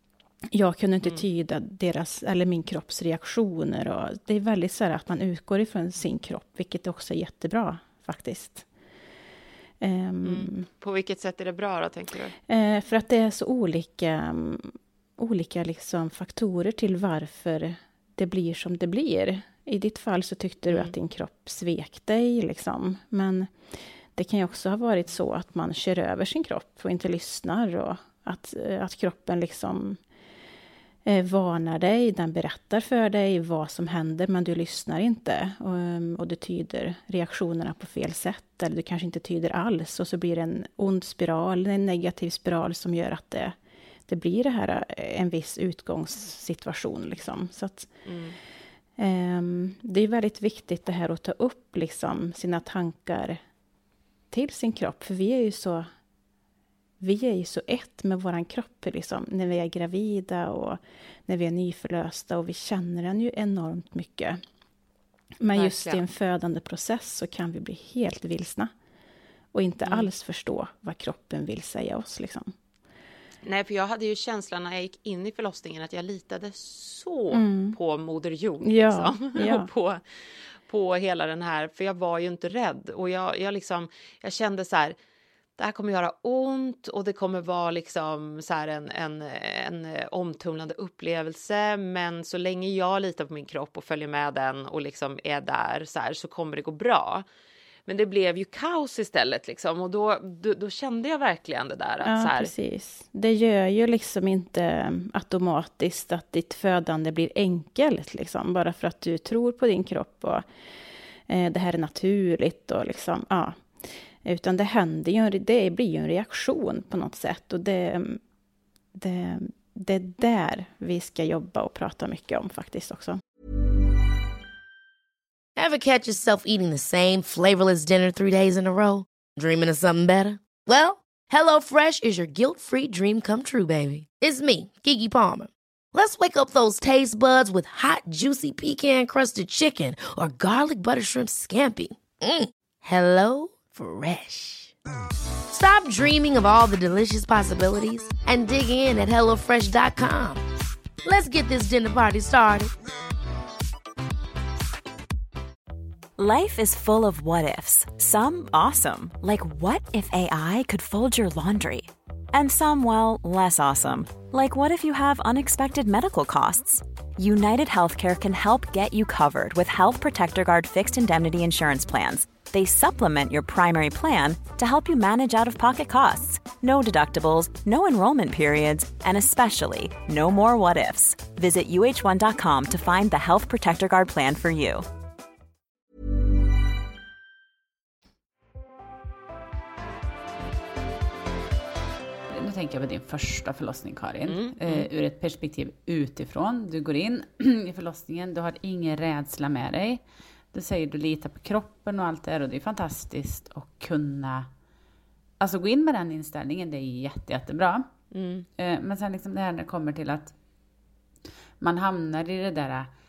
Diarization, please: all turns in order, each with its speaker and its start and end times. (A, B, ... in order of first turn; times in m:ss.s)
0:00.5-0:08.6 A
0:09.8-0:10.7 A
0:10.2-0:12.4 B
0:12.5-0:23.5 A
0:20.7-0:20.9 B
0:24.1-0:30.0 A
0:31.0-0:47.9 A
0:48.0-0:48.4 B
0:49.0-0:53.4 A
0:54.3-0:55.9 A
0:57.0-1:04.4 A
1:05.4-1:08.7 A
1:05.6-1:06.0 B
1:09.5-1:12.5 A
1:09.8-1:10.1 B
1:13.4-1:20.0 B
1:17.3-1:17.8 A
1:18.6-1:19.7 A
1:20.6-1:25.0 B
1:25.6-1:37.2 B
1:37.9-1:42.5 B
1:42.0-1:50.4 A
1:51.3-1:53.7 A
1:54.2-1:58.2 A
1:58.9-2:03.2 A
2:05.6-2:24.7 C
2:25.5-2:30.4 C
2:31.0-2:32.7 C
2:36.2-3:04.8 D
3:12.3-3:24.5 E
3:14.3-3:14.9 B
3:25.4-3:27.9 E
3:28.1-3:28.4 B
3:28.6-3:30.4 E
3:31.6-3:32.9 E